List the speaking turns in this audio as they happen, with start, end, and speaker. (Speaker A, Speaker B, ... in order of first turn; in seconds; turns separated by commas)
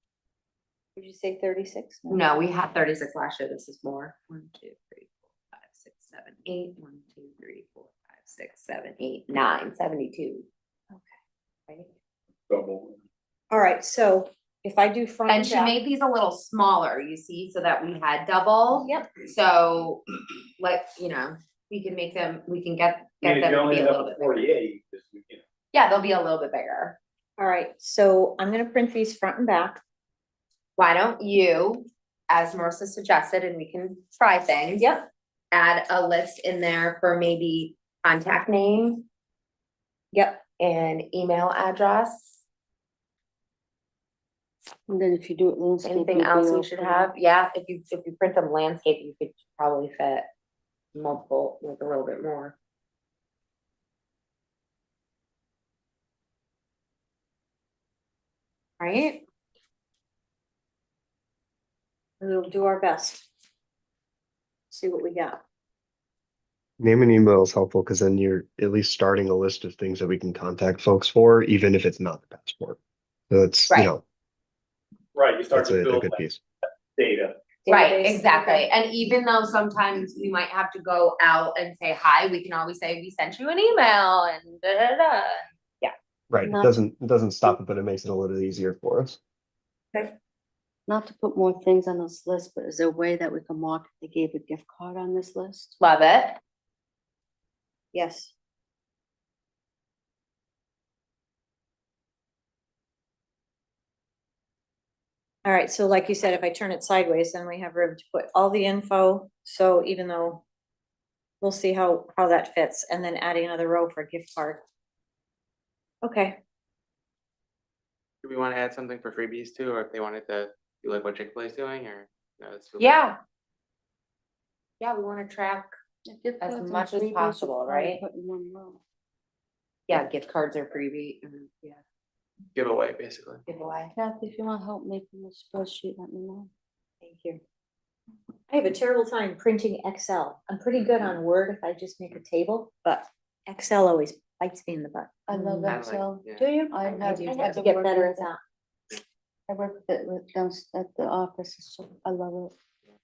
Speaker A: 0.9-2.2, Speaker B: 2.1-10.5, Speaker A: 10.9-11.2, Speaker C: 12.5-13.0, Speaker A: 13.5-15.8, Speaker B: 15.3-20.0, Speaker A: 18.7-19.1, Speaker B: 20.6-24.5, Speaker C: 23.2-25.4, Speaker B: 25.7-27.0, Speaker A: 27.4-29.8, Speaker B: 30.8-34.9, Speaker A: 34.8-35.1, Speaker B: 35.5-39.0, Speaker A: 40.1-40.4, Speaker B: 40.6-42.4, Speaker D: 44.9-47.1, Speaker B: 45.8-50.3, Speaker B: 50.9-52.5, Speaker B: 58.8-59.2, Speaker A: 62.2-63.3, Speaker A: 64.7-65.4, Speaker E: 66.8-72.8, Speaker E: 73.3-74.0, Speaker C: 75.1-76.2, Speaker E: 75.5-76.4, Speaker C: 77.0-77.3, Speaker A: 77.6-78.7, Speaker B: 77.7-85.9, Speaker E: 86.3-89.2, Speaker D: 86.4-86.7, Speaker D: 90.9-95.7, Speaker B: 95.8-96.4, Speaker A: 97.9-98.3, Speaker A: 105.4-110.4, Speaker A: 111.4-114.6, Speaker A: 116.0-116.4, Speaker F: 118.2-122.9, Speaker B: 122.8-123.2, Speaker B: 124.8-125.7, Speaker D: 126.0-128.8, Speaker B: 126.4-128.0, Speaker B: 129.9-131.8, Speaker F: 132.5-133.4, Speaker B: 133.5-133.9, Speaker D: 133.9-136.5, Speaker A: 137.0-137.4, Speaker A: 138.5-145.8, Speaker D: 145.3-148.3, Speaker F: 145.6-147.6, Speaker A: 146.4-148.4, Speaker D: 149.5-152.5